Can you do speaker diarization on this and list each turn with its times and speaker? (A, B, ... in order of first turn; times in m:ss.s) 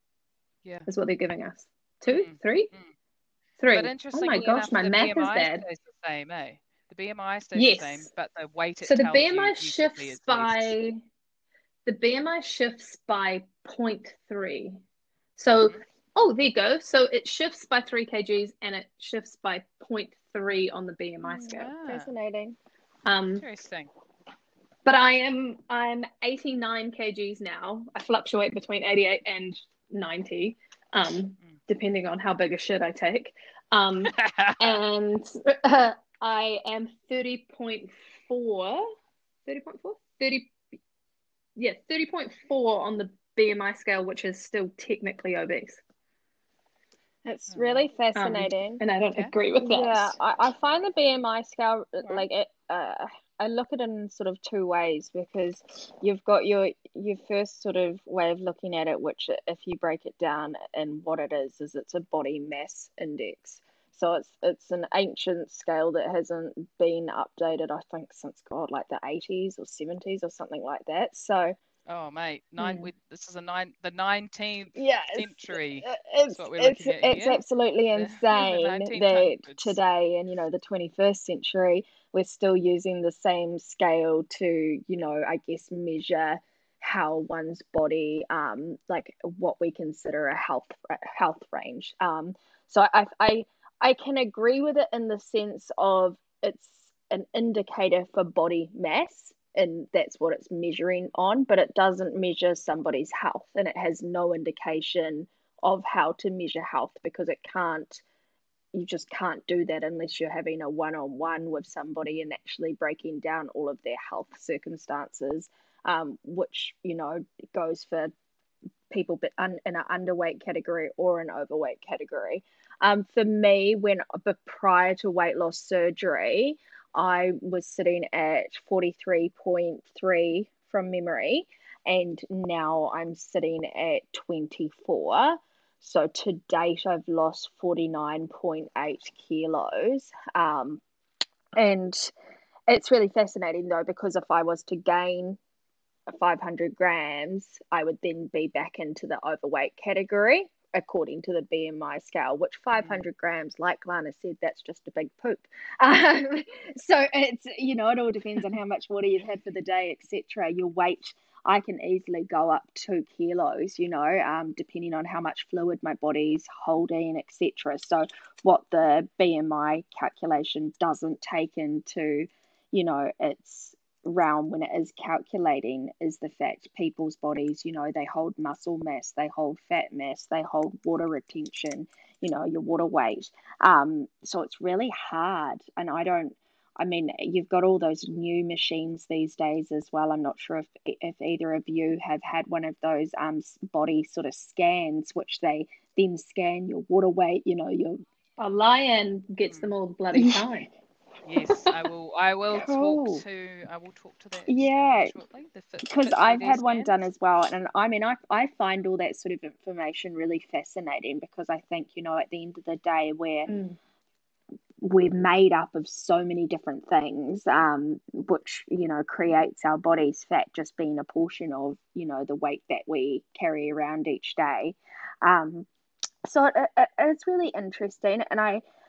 0:00.9-0:02.7 A
0:02.2-0:02.9 B
0:03.6-0:05.6 A
0:03.7-0:10.8 B
0:07.6-0:08.1 A
0:08.8-0:11.0 A
0:11.9-0:14.8 A
0:15.4-0:21.7 A
0:21.3-0:22.6 C
0:21.5-0:22.1 B
0:23.1-0:23.4 A
0:23.4-0:23.9 B
0:24.8-0:38.9 A
0:34.2-0:34.8 B
0:39.5-0:40.5 A
0:41.6-0:45.8 A
0:47.2-0:48.8 C
0:47.5-0:47.9 B
0:48.2-0:50.1 A
0:49.6-1:11.6 C
1:11.9-1:17.4 B
1:14.8-1:48.0 C
1:18.0-1:19.8 B
1:48.7-1:58.1 C
1:58.9-2:20.8 C
2:21.6-2:22.1 C
2:22.7-2:25.4 C
2:26.1-3:18.0 C
3:18.4-3:20.7 A
3:20.1-3:20.4 C
3:21.2-3:27.0 B
3:22.5-3:23.2 C
3:24.5-3:25.2 C
3:25.8-3:33.6 C
3:33.5-3:33.8 A
3:34.8-3:45.7 C
3:46.2-3:48.6 C